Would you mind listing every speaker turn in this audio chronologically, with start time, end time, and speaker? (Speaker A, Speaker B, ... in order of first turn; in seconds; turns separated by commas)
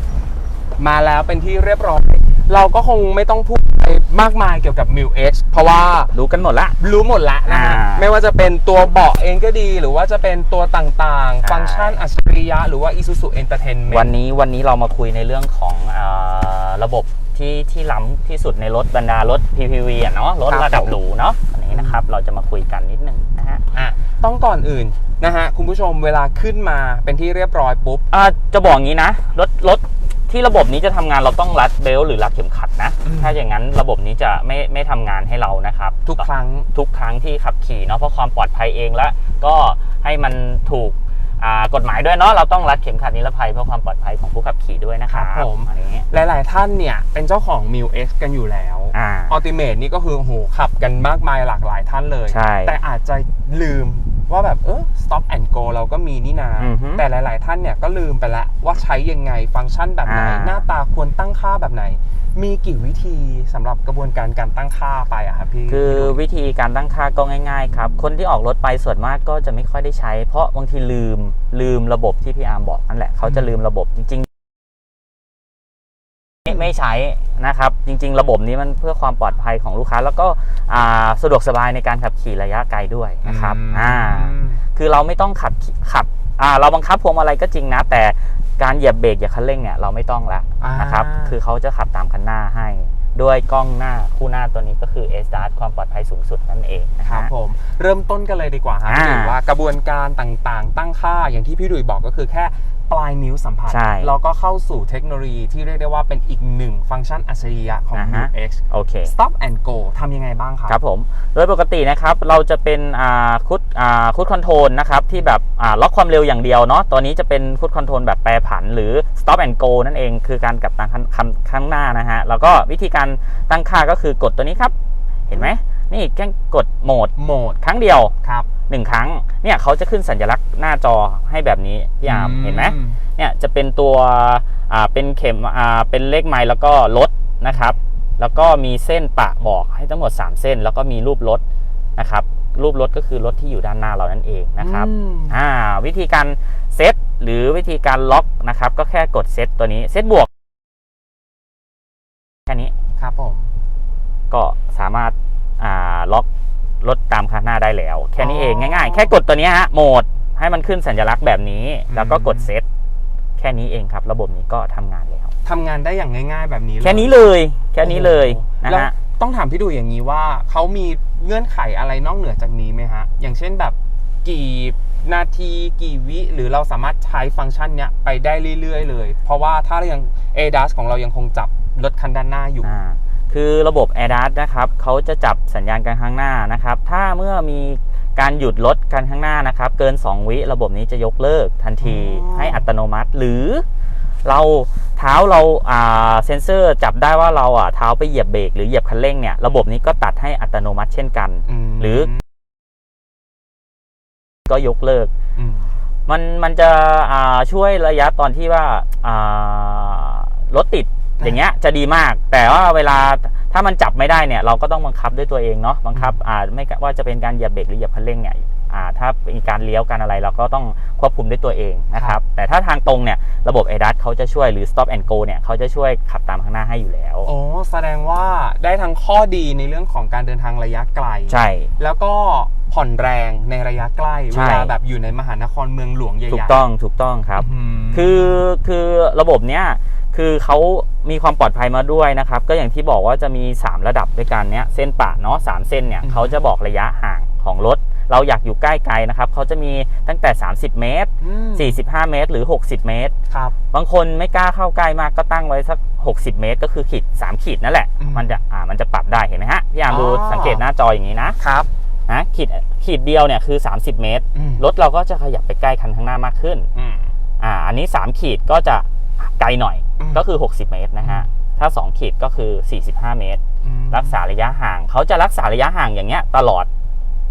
Speaker A: 0.8-6.1, Speaker B: 6.1-6.8, Speaker A: 6.8-14.1, Speaker B: 7.5-8.1, Speaker B: 11.4-12.0, Speaker B: 13.9-23.6, Speaker A: 20.5-20.9, Speaker A: 21.7-22.0, Speaker A: 23.7-28.1, Speaker B: 28.1-46.1, Speaker A: 33.0-33.4, Speaker A: 36.0-36.7, Speaker A: 45.1-66.2, Speaker B: 48.9-49.3, Speaker B: 52.3-52.7, Speaker B: 56.6-57.0, Speaker B: 60.0-60.6, Speaker B: 65.7-74.3, Speaker A: 73.2-73.5, Speaker B: 76.5-97.3, Speaker A: 83.2-84.6, Speaker A: 90.6-91.3, Speaker A: 97.0-110.8, Speaker B: 98.9-99.3, Speaker B: 103.7-104.1, Speaker B: 107.9-109.1, Speaker B: 110.7-124.7, Speaker B: 125.3-128.1, Speaker A: 127.2-127.6, Speaker A: 128.2-128.5, Speaker B: 128.7-141.4, Speaker A: 132.0-133.0, Speaker B: 142.0-150.3, Speaker A: 144.6-145.3, Speaker B: 152.4-152.7, Speaker A: 153.0-153.5, Speaker B: 154.3-156.3, Speaker B: 156.8-162.6, Speaker A: 158.2-159.1, Speaker A: 161.9-162.5, Speaker B: 163.4-165.3, Speaker A: 165.4-167.2, Speaker B: 166.8-168.9, Speaker A: 167.8-182.7, Speaker B: 182.6-193.6, Speaker A: 191.8-192.6, Speaker B: 194.2-202.1, Speaker A: 201.4-202.2, Speaker B: 204.5-205.1, Speaker A: 205.3-205.7, Speaker B: 206.1-227.3, Speaker A: 221.9-222.2, Speaker A: 227.2-236.6, Speaker B: 231.3-231.7, Speaker B: 234.3-234.7, Speaker B: 236.3-253.1, Speaker A: 237.4-238.4, Speaker A: 246.0-246.3, Speaker A: 251.2-251.8, Speaker A: 253.3-253.6, Speaker B: 253.7-261.4, Speaker A: 258.0-258.3, Speaker A: 259.9-260.6, Speaker A: 261.4-261.7, Speaker B: 262.1-266.7, Speaker A: 264.3-264.6, Speaker A: 266.7-267.1, Speaker B: 267.4-276.7, Speaker A: 270.0-270.2, Speaker A: 271.0-271.3, Speaker A: 273.6-274.2